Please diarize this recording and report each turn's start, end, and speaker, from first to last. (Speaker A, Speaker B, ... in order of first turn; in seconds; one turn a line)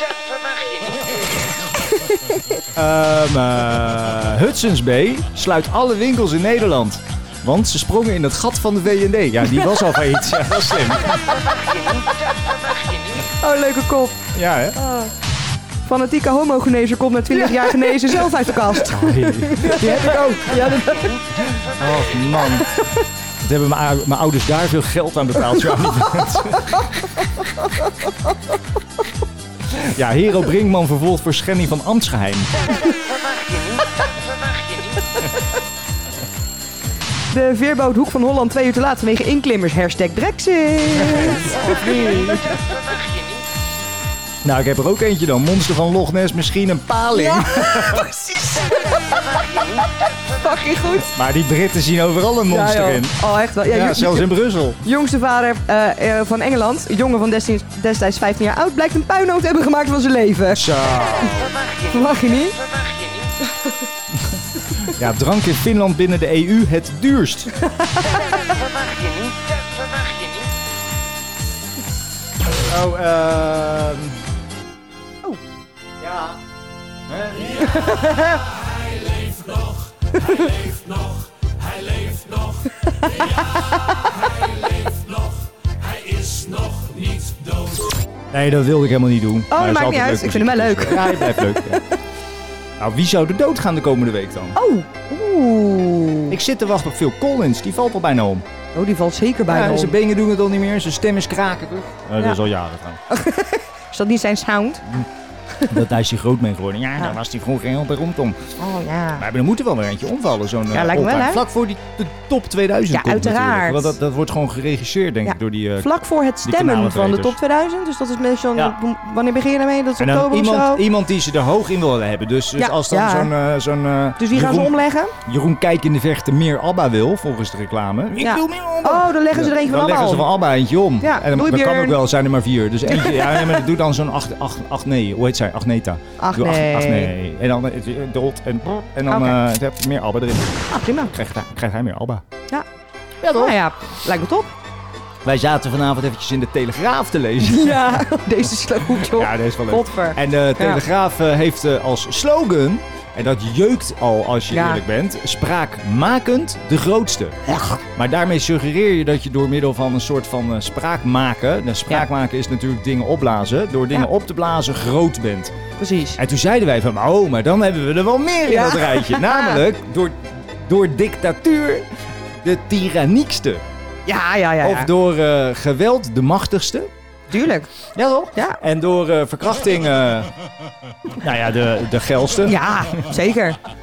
Speaker A: 1.9-2.4
Speaker B: 2.7-11.4
Speaker A: 13.4-15.1
Speaker B: 14.3-14.8
Speaker A: 15.8-21.2
Speaker B: 17.4-22.7
Speaker A: 22.6-23.0
Speaker B: 23.4-27.2
Speaker A: 25.7-26.9
Speaker A: 27.6-27.9
Speaker B: 29.7-32.5
Speaker A: 37.3-42.3
Speaker B: 40.9-42.7
Speaker B: 44.4-48.1
Speaker A: 47.1-49.2
Speaker A: 50.4-51.1
Speaker B: 50.9-54.8
Speaker A: 52.5-60.6
Speaker B: 60.5-61.6
Speaker A: 61.9-62.6
Speaker B: 64.8-67.5
Speaker A: 67.6-68.4
Speaker B: 72.6-74.2
Speaker B: 76.0-76.4
Speaker B: 77.1-78.2
Speaker A: 77.6-78.3
Speaker C: 78.4-88.0
Speaker A: 82.9-84.0
Speaker B: 88.3-91.8
Speaker A: 89.5-91.4
Speaker B: 92.8-94.5
Speaker A: 94.5-96.4
Speaker B: 96.3-98.5
Speaker A: 98.7-99.9
Speaker B: 99.5-103.0
Speaker A: 103.1-105.0
Speaker B: 105.7-108.5
Speaker A: 108.6-109.3
Speaker B: 109.2-115.9
Speaker A: 110.7-111.4
Speaker A: 112.9-114.0
Speaker A: 115.2-120.8
Speaker B: 116.4-117.4
Speaker B: 120.0-124.7
Speaker A: 122.6-123.3
Speaker A: 124.2-125.1
Speaker B: 125.2-140.6
Speaker A: 128.2-130.3
Speaker A: 131.0-132.0
Speaker A: 132.9-133.6
Speaker A: 136.2-137.1
Speaker A: 139.1-139.3
Speaker A: 140.7-141.1
Speaker B: 141.1-142.2
Speaker B: 143.2-143.6
Speaker A: 143.3-144.5
Speaker B: 145.2-157.4
Speaker A: 147.4-150.8
Speaker A: 154.5-154.8
Speaker A: 157.5-157.8
Speaker B: 157.9-165.5
Speaker A: 165.8-166.2
Speaker B: 166.2-171.9
Speaker A: 168.4-169.6
Speaker B: 172.4-173.6
Speaker A: 174.1-174.9
Speaker B: 174.6-176.9
Speaker A: 177.3-177.7
Speaker B: 177.8-180.3
Speaker A: 178.3-178.6
Speaker B: 181.0-182.7
Speaker A: 182.4-183.6